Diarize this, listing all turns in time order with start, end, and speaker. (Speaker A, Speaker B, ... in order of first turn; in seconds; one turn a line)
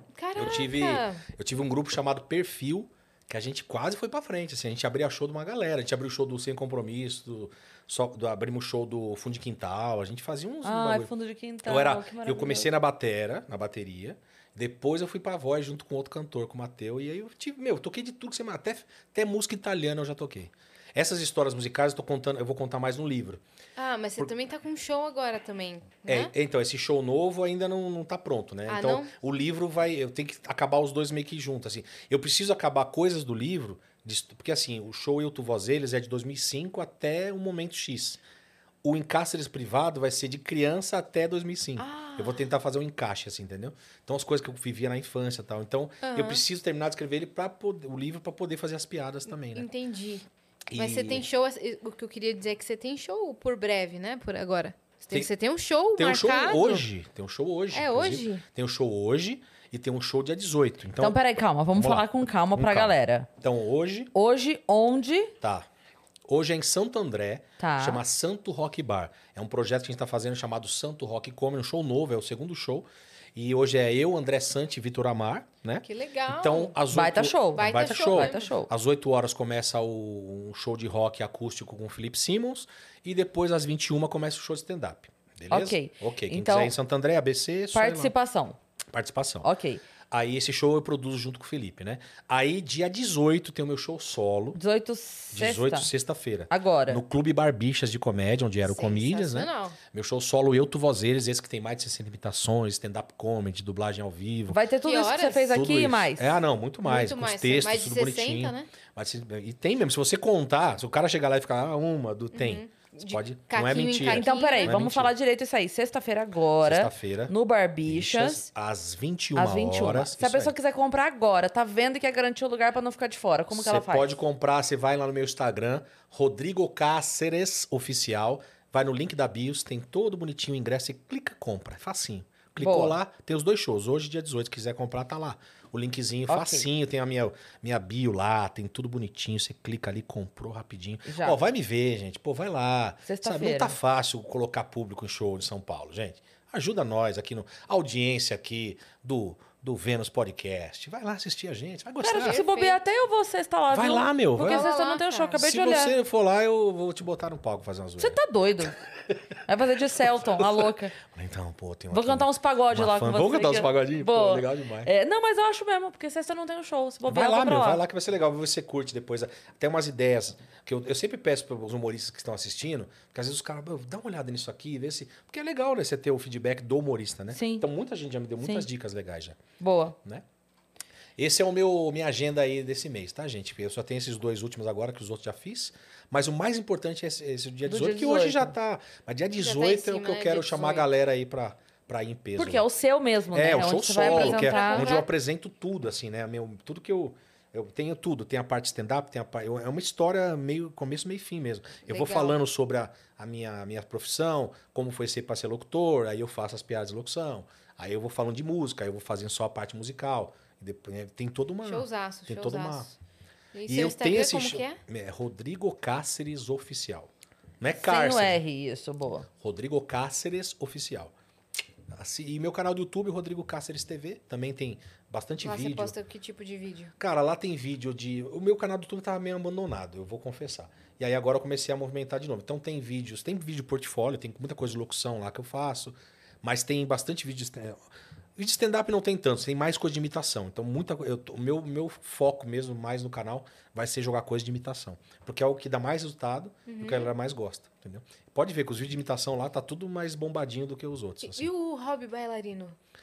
Speaker A: 0.1-1.2
Speaker B: 0.3-11.1
Speaker C: 10.6-12.7
Speaker B: 11.6-23.4
Speaker A: 23.8-26.3
Speaker B: 26.1-38.2
Speaker A: 28.7-29.1
Speaker B: 38.8-49.7
Speaker A: 41.8-42.4
Speaker A: 46.0-46.4
Speaker A: 49.5-56.8
Speaker B: 50.7-51.2
Speaker B: 56.0-64.1
Speaker A: 57.7-58.4
Speaker C: 61.0-63.3
Speaker C: 64.1-65.3
Speaker B: 65.4-65.7
Speaker B: 66.3-88.1
Speaker C: 67.6-68.0
Speaker A: 75.8-76.7
Speaker C: 76.9-78.7
Speaker A: 77.5-78.5
Speaker C: 85.5-86.7
Speaker C: 87.7-88.6
Speaker B: 88.9-89.5
Speaker C: 89.4-89.8
Speaker B: 90.1-94.6
Speaker C: 94.5-95.9
Speaker B: 95.3-104.6
Speaker C: 96.5-97.0
Speaker A: 98.6-99.8
Speaker C: 104.5-106.4
Speaker A: 104.8-105.5
Speaker B: 105.5-115.1
Speaker A: 106.8-108.7
Speaker A: 112.3-114.7
Speaker C: 114.1-118.5
Speaker B: 116.6-117.3
Speaker B: 117.8-120.5
Speaker C: 119.3-124.1
Speaker B: 123.5-152.4
Speaker C: 132.6-132.9
Speaker C: 136.3-136.7
Speaker C: 141.1-141.4
Speaker C: 143.1-143.8
Speaker C: 152.0-155.9
Speaker A: 152.1-152.8
Speaker B: 153.7-154.7
Speaker A: 154.4-155.4
Speaker B: 155.3-158.2
Speaker C: 158.0-158.8
Speaker C: 159.5-160.9
Speaker B: 160.1-164.9
Speaker C: 161.9-167.8
Speaker B: 167.1-179.4
Speaker C: 177.3-177.7
Speaker C: 178.4-178.7
Speaker C: 179.6-179.9
Speaker B: 181.2-192.7
Speaker C: 187.7-188.5
Speaker A: 189.4-190.9
Speaker C: 192.4-194.9
Speaker B: 193.3-212.9
Speaker A: 194.0-195.1
Speaker A: 201.8-202.4
Speaker A: 211.6-212.9
Speaker A: 213.5-214.8
Speaker B: 213.7-218.4
Speaker C: 217.7-219.3
Speaker B: 219.4-221.1
Speaker B: 221.9-225.9
Speaker A: 225.4-226.9
Speaker B: 227.0-237.8
Speaker B: 238.3-251.5
Speaker A: 246.7-247.1
Speaker A: 251.2-252.8